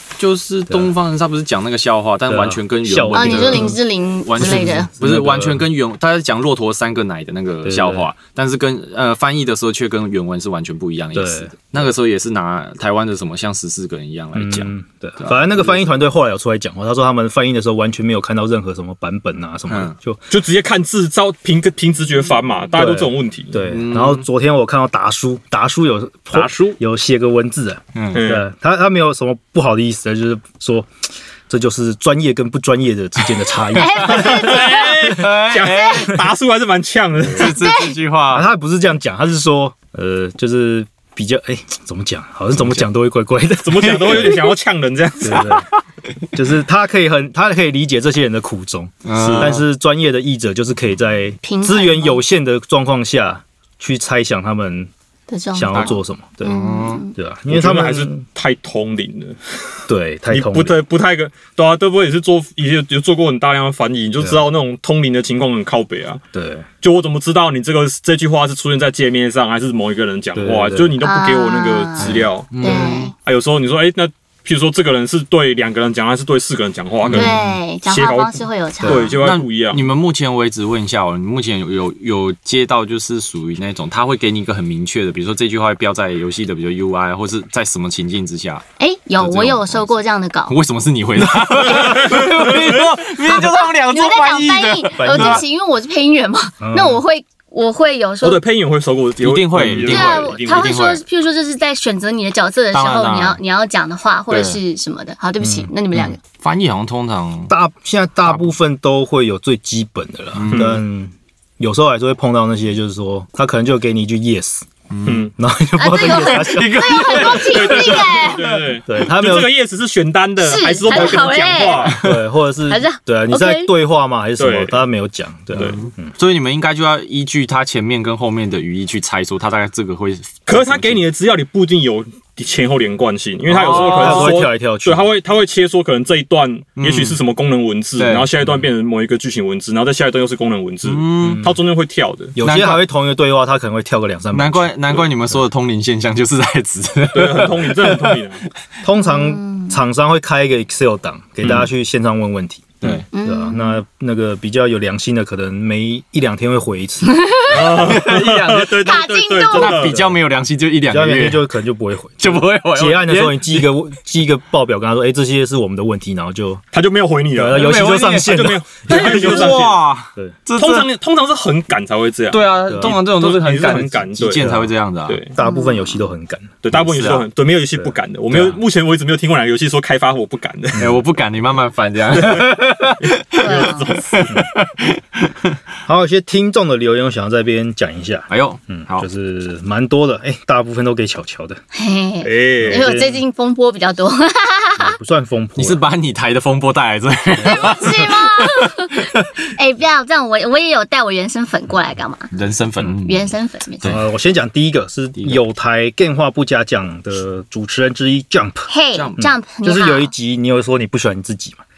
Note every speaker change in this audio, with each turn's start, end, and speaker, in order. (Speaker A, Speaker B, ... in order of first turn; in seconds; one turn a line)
Speaker A: 0.2-15.8
Speaker B: 2.3-3.8
Speaker C: 3.1-4.9
Speaker B: 4.4-5.6
Speaker B: 7.6-8.1
Speaker B: 11.1-11.5
Speaker B: 14.3-20.2
Speaker A: 19.7-19.9
Speaker D: 20.3-23.5
Speaker B: 22.8-30.9
Speaker A: 23.6-24.2
Speaker A: 26.3-26.8
Speaker A: 27.9-28.2
Speaker D: 28.1-28.5
Speaker B: 31.5-34.6
Speaker C: 33.7-35.1
Speaker A: 34.0-36.2
Speaker D: 34.2-37.5
Speaker A: 37.3-38.5
Speaker C: 37.4-38.0
Speaker B: 38.3-44.5
Speaker A: 42.5-42.8
Speaker D: 43.6-45.5
Speaker B: 45.2-45.7
Speaker B: 46.3-54.9
Speaker A: 49.0-49.6
Speaker D: 49.2-49.5
Speaker C: 51.4-52.2
Speaker C: 55.3-57.1
Speaker B: 55.5-56.6
Speaker A: 55.7-57.0
Speaker B: 57.1-58.2
Speaker D: 57.5-59.4
Speaker B: 59.9-60.8
Speaker D: 60.3-66.2
Speaker B: 64.2-64.5
Speaker B: 66.3-66.7
Speaker D: 66.8-79.8
Speaker B: 70.3-71.0
Speaker C: 71.0-73.1
Speaker A: 72.0-73.1
Speaker A: 77.0-77.6
Speaker C: 77.1-79.2
Speaker B: 78.8-79.1
Speaker A: 79.2-88.6
Speaker C: 88.8-90.5
Speaker A: 89.2-89.9
Speaker A: 90.5-95.4
Speaker C: 91.7-92.0
Speaker C: 93.1-98.4
Speaker B: 95.0-95.4
Speaker B: 96.6-97.0
Speaker D: 98.2-100.7
Speaker A: 99.2-101.0
Speaker C: 99.8-106.2
Speaker A: 102.7-103.4
Speaker A: 104.3-104.6
Speaker B: 105.4-106.1
Speaker A: 106.4-107.5
Speaker B: 107.5-114.7
Speaker A: 108.2-108.5
Speaker A: 110.3-110.8
Speaker D: 110.5-110.8
Speaker A: 114.9-115.3
Speaker D: 115.0-115.3
Speaker B: 115.3-117.2
Speaker C: 115.8-118.5
Speaker A: 116.0-118.7
Speaker D: 117.1-122.0
Speaker B: 118.9-119.5
Speaker C: 120.4-122.0
Speaker A: 121.8-122.2
Speaker B: 121.9-126.1
Speaker C: 122.7-123.7
Speaker D: 124.4-124.8
Speaker D: 125.5-125.8
Speaker A: 125.6-131.0
Speaker D: 130.5-142.3
Speaker A: 133.5-134.4
Speaker B: 133.5-135.1
Speaker A: 136.8-137.2
Speaker A: 138.0-138.3
Speaker A: 140.8-141.4
Speaker B: 141.2-141.5
Speaker B: 142.3-145.1
Speaker A: 142.4-142.8
Speaker A: 144.3-148.2
Speaker D: 147.1-148.4
Speaker B: 148.8-157.2
Speaker C: 149.0-149.7
Speaker A: 151.4-151.7
Speaker C: 153.1-153.8
Speaker C: 157.1-157.5
Speaker D: 157.5-159.9
Speaker A: 157.6-158.9
Speaker C: 158.8-159.9
Speaker A: 159.5-161.5
Speaker B: 159.9-160.2
Speaker B: 160.9-166.6
Speaker A: 162.2-163.7
Speaker D: 166.7-169.8
Speaker B: 167.3-169.6
Speaker A: 167.5-170.9
Speaker D: 170.6-174.5
Speaker A: 172.3-175.2
Speaker B: 172.7-173.0
Speaker B: 174.3-174.7
Speaker D: 175.1-175.3
Speaker B: 175.3-176.5
Speaker C: 175.4-175.9
Speaker D: 176.6-180.9
Speaker A: 176.7-177.2
Speaker A: 178.3-178.6
Speaker A: 180.8-185.6
Speaker D: 183.0-184.3
Speaker C: 183.4-184.0
Speaker B: 185.8-191.6
Speaker A: 188.3-189.1
Speaker C: 191.7-195.0
Speaker D: 192.2-192.9
Speaker B: 192.6-193.2
Speaker B: 194.8-195.8
Speaker A: 195.6-199.4
Speaker C: 197.4-202.3
Speaker A: 202.3-204.0
Speaker C: 203.0-203.9
Speaker B: 203.8-211.6
Speaker C: 208.7-210.1
Speaker A: 208.9-209.3